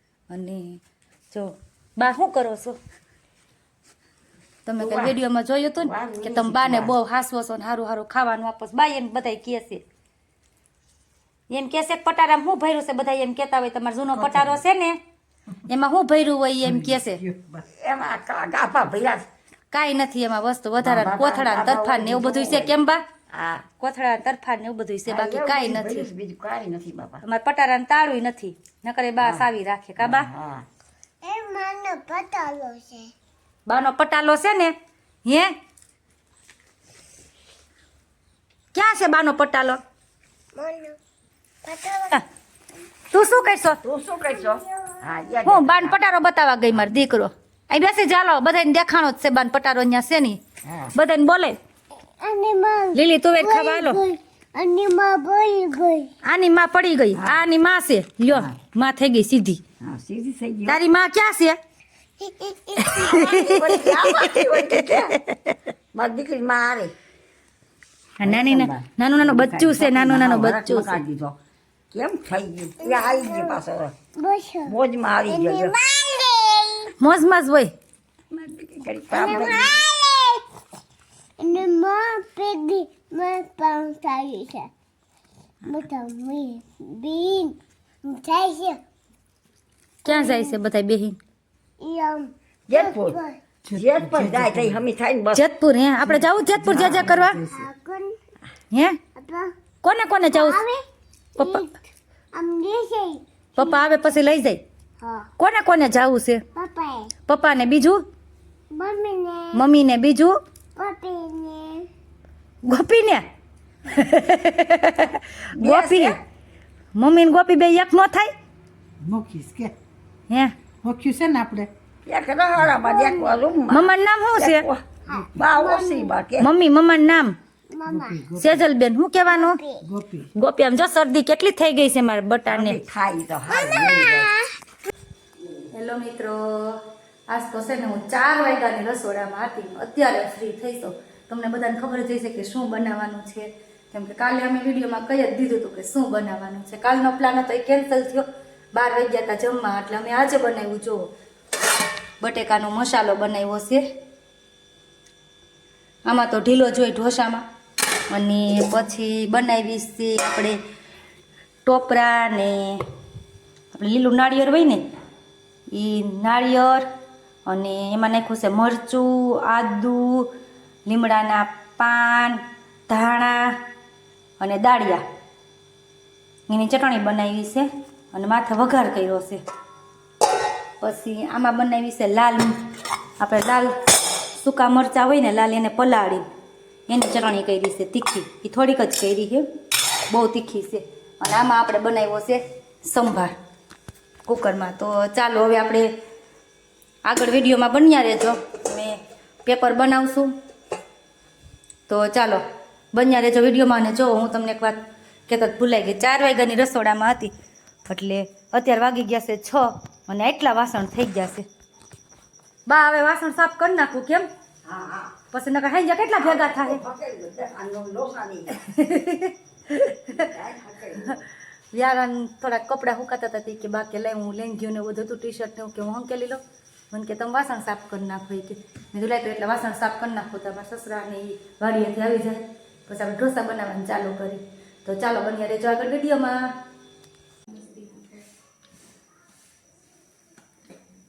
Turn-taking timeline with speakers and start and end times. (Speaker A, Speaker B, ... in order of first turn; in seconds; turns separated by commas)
Speaker A: 0.3-0.8, Speaker A: 1.3-2.8, Speaker A: 4.7-9.8, Speaker B: 4.8-5.2, Speaker B: 5.8-6.9, Speaker A: 11.5-15.0, Speaker A: 15.6-17.2, Speaker C: 16.6-17.6, Speaker B: 17.6-19.3, Speaker A: 19.7-23.0, Speaker B: 20.8-22.8, Speaker B: 23.3-23.6, Speaker A: 23.8-26.1, Speaker B: 25.1-27.2, Speaker A: 27.2-30.3, Speaker B: 29.2-29.4, Speaker B: 30.0-30.6, Speaker D: 31.2-33.1, Speaker A: 33.7-34.7, Speaker A: 35.2-35.5, Speaker A: 38.7-39.8, Speaker D: 40.5-41.0, Speaker D: 41.6-42.2, Speaker A: 43.1-43.8, Speaker B: 43.8-46.0, Speaker D: 44.4-45.0, Speaker A: 45.4-50.4, Speaker B: 50.6-50.9, Speaker A: 50.9-51.6, Speaker D: 52.2-56.1, Speaker A: 52.9-54.0, Speaker A: 56.2-59.6, Speaker B: 57.1-57.4, Speaker B: 58.3-58.6, Speaker B: 59.8-60.8, Speaker A: 60.7-61.6, Speaker D: 62.2-63.2, Speaker A: 62.8-65.5, Speaker B: 63.1-65.2, Speaker B: 65.9-66.9, Speaker A: 68.2-71.0, Speaker B: 68.2-71.4, Speaker B: 71.9-73.9, Speaker D: 72.8-73.6, Speaker D: 74.2-74.7, Speaker B: 74.7-75.7, Speaker D: 75.3-76.9, Speaker A: 77.0-77.7, Speaker B: 78.3-79.8, Speaker D: 79.1-80.5, Speaker D: 81.4-84.7, Speaker D: 85.7-88.8, Speaker D: 90.0-90.5, Speaker A: 90.0-91.2, Speaker D: 91.8-93.4, Speaker B: 92.7-93.2, Speaker C: 93.6-94.8, Speaker B: 93.7-95.4, Speaker A: 95.3-97.4, Speaker C: 96.0-97.7, Speaker D: 97.3-98.1, Speaker A: 98.7-99.0, Speaker D: 99.2-99.5, Speaker A: 99.8-100.6, Speaker D: 100.3-100.8, Speaker A: 101.4-101.6, Speaker D: 101.4-101.7, Speaker D: 102.3-103.8, Speaker A: 103.5-104.6, Speaker D: 105.0-105.3, Speaker A: 105.4-106.4, Speaker D: 106.5-107.1, Speaker A: 107.3-108.0, Speaker D: 108.7-109.6, Speaker A: 109.5-110.4, Speaker D: 110.8-111.9, Speaker A: 112.7-113.2, Speaker A: 113.8-116.2, Speaker B: 115.5-116.2, Speaker A: 116.9-118.3, Speaker C: 119.0-119.8, Speaker C: 120.8-121.7, Speaker B: 122.0-126.5, Speaker D: 122.8-123.4, Speaker A: 123.7-124.7, Speaker D: 125.1-126.1, Speaker A: 126.4-127.3, Speaker D: 127.7-128.2, Speaker C: 127.8-128.6, Speaker A: 128.4-129.6, Speaker D: 129.3-129.8, Speaker C: 129.8-130.3, Speaker A: 130.3-132.8, Speaker B: 132.5-134.3, Speaker D: 133.5-134.5, Speaker A: 135.7-151.1, Speaker A: 152.2-153.8, Speaker A: 156.1-157.4, Speaker A: 158.1-160.6, Speaker A: 161.6-162.8, Speaker A: 163.7-164.8, Speaker A: 165.7-166.8, Speaker A: 167.5-170.3, Speaker A: 170.8-173.5, Speaker A: 174.4-175.0, Speaker A: 176.5-179.4, Speaker A: 180.8-182.5, Speaker A: 183.2-183.7, Speaker A: 184.4-186.2, Speaker A: 186.9-189.4, Speaker A: 190.1-193.3, Speaker A: 194.2-195.9, Speaker A: 197.1-200.3, Speaker A: 201.9-202.4, Speaker A: 202.9-204.8, Speaker A: 205.3-207.3, Speaker A: 207.9-211.4, Speaker A: 212.7-214.3, Speaker B: 214.6-215.1, Speaker A: 215.3-216.8, Speaker B: 216.2-218.7, Speaker A: 218.6-220.2, Speaker B: 220.1-221.2, Speaker A: 221.7-236.5